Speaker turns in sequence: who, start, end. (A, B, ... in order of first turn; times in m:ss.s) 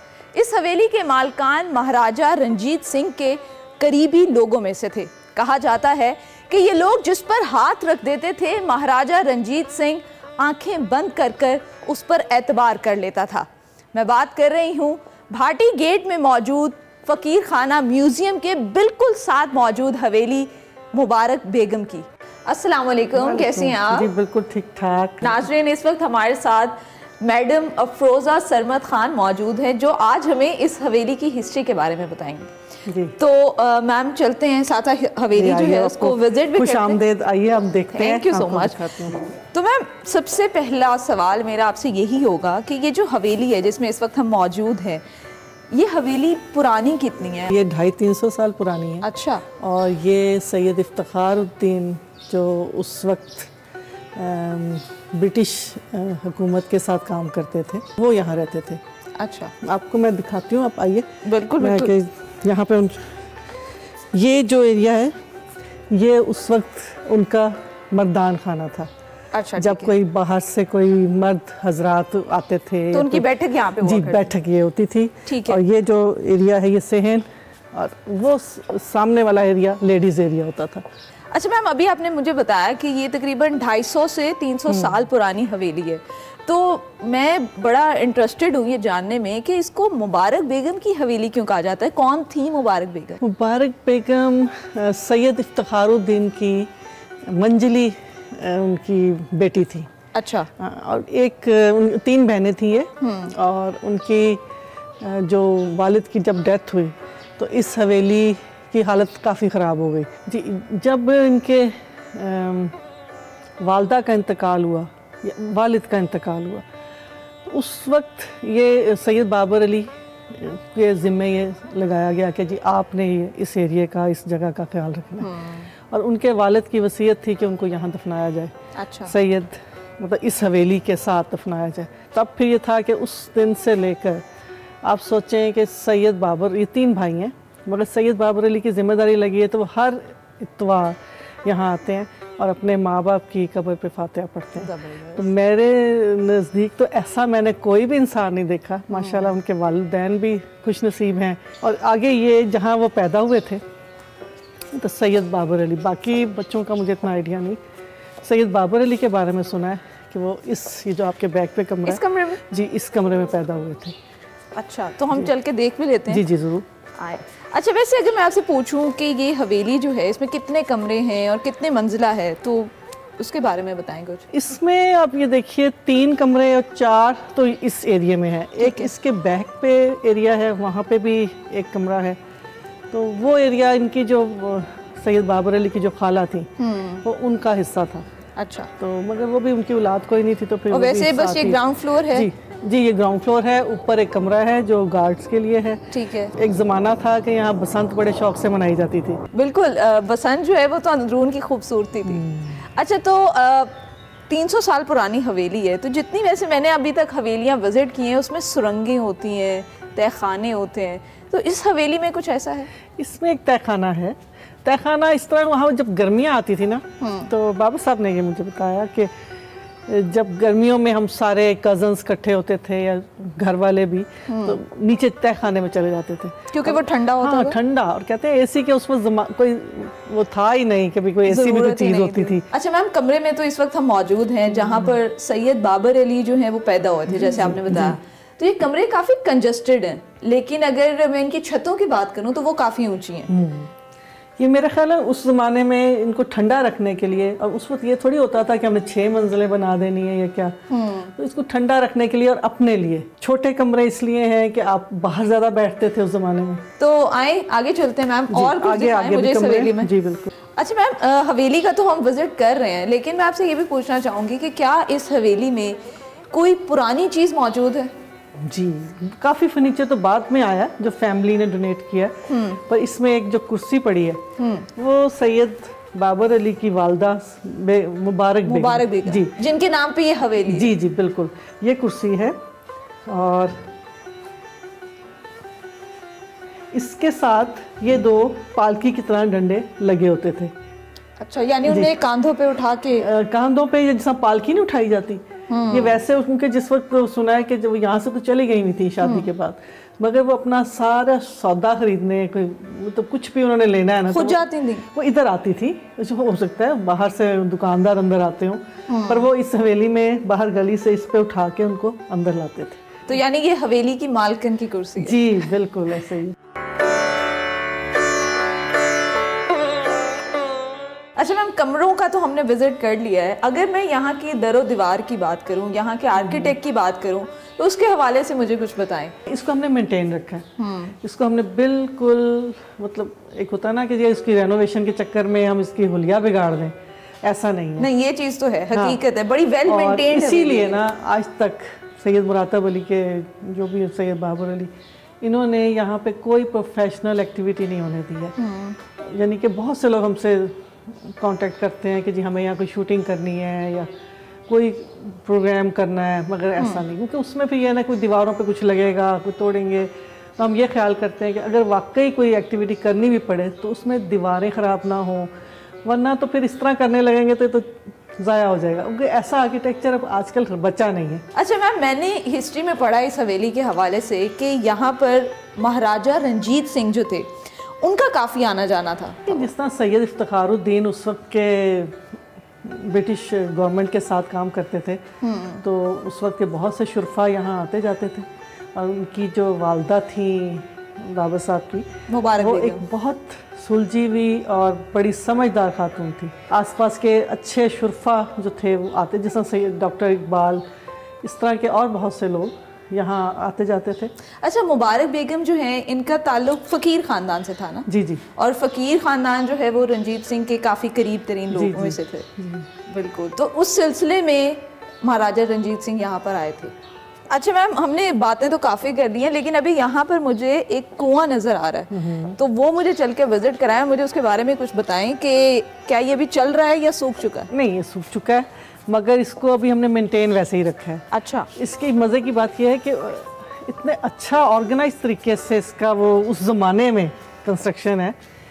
0:00.3-0:24.1 A
0:23.2-0:25.4 B
0:25.2-0:32.5 A
0:32.9-0:33.2 B
0:33.2-0:37.0 A
0:35.3-0:39.2 B
0:37.9-0:45.0 A
0:45.7-0:47.5 A
0:47.5-0:53.5 B
0:49.0-0:49.4 A
0:54.2-0:58.8 B
0:59.2-0:59.5 A
0:59.6-1:01.1 B
1:01.2-1:02.0 A
1:01.6-1:03.1 B
1:04.1-1:05.1 B
1:05.9-1:08.9 B
1:09.3-1:10.0 A
1:09.6-1:13.3 B
1:12.9-1:14.4 A
1:13.8-1:20.8 B
1:15.3-1:15.6 A
1:21.3-1:33.2 A
1:24.7-1:25.0 B
1:33.2-1:36.7 B
1:37.3-1:39.9 B
1:40.1-1:40.5 A
1:40.6-1:44.4 B
1:43.0-1:43.3 A
1:45.0-1:52.7 B
1:53.6-1:56.6 B
1:57.4-2:05.3 B
2:05.2-2:05.7 A
2:05.9-2:08.5 B
2:08.8-2:09.1 A
2:09.1-2:14.2 B
2:14.8-2:33.6 B
2:24.6-2:25.3 A
2:28.9-2:29.4 A
2:34.7-2:37.6 B
2:38.2-2:44.0 B
2:41.8-2:42.4 A
2:44.6-2:46.2 A
2:46.1-2:46.7 B
2:47.0-2:54.2 A
2:54.3-3:02.2 B
2:58.6-2:58.9 A
3:02.9-3:06.5 B
3:06.6-3:07.0 A
3:07.0-3:08.0 B
3:08.4-3:08.7 A
3:08.8-3:19.2 B
3:10.7-3:12.3 A
3:15.9-3:16.4 A
3:19.3-3:32.7 A
3:22.1-3:22.6 B
3:33.0-3:39.1 B
3:37.0-3:37.3 A
3:39.9-3:52.5 B
3:44.3-3:44.6 A
3:46.5-3:47.6 A
3:51.3-4:03.3 A
3:57.1-3:58.0 B
4:03.3-4:03.7 B
4:04.4-4:10.6 B
4:10.7-4:11.1 A
4:11.2-4:16.6 B
4:16.8-4:19.9 A
4:18.3-4:20.3 B
4:20.6-4:25.8 A
4:26.3-4:27.9 A
4:28.4-4:34.2 B
4:32.3-4:32.6 A
4:34.4-4:34.7 A
4:34.8-4:39.4 B
4:38.5-4:40.7 A
4:40.4-4:42.4 B
4:43.1-4:43.6 B
4:46.7-4:50.5 B
4:51.2-4:53.1 A
4:51.7-4:51.9 B
4:53.0-5:12.8 B
4:55.5-4:56.0 A
4:59.0-4:59.3 A
5:04.1-5:04.8 A
5:08.9-5:09.3 A
5:13.1-5:15.4 A
5:15.0-5:16.4 B
5:21.2-5:29.2 A
5:26.2-5:26.6 B
5:29.3-5:30.5 B
5:30.6-5:31.0 A
5:31.0-5:37.9 B
5:37.8-5:40.8 A
5:38.7-5:39.0 B
5:39.7-5:48.4 B
5:48.4-5:48.8 A
5:49.0-5:53.9 B
5:54.5-6:05.3 B
5:56.6-5:56.8 A
6:05.8-6:11.2 B
6:11.3-6:17.3 A
6:17.8-6:19.5 A
6:19.3-6:22.0 B
6:22.6-6:25.0 B
6:25.2-6:25.6 A
6:25.6-6:31.9 B
6:32.1-6:32.8 A
6:32.4-6:40.6 B
6:41.2-6:44.1 B
6:44.4-6:52.3 A
6:47.9-6:48.2 B
6:51.5-6:52.7 B
6:52.8-6:56.7 A
6:57.3-7:07.5 A
7:01.9-7:02.4 B
7:07.5-7:18.2 B
7:11.1-7:11.5 A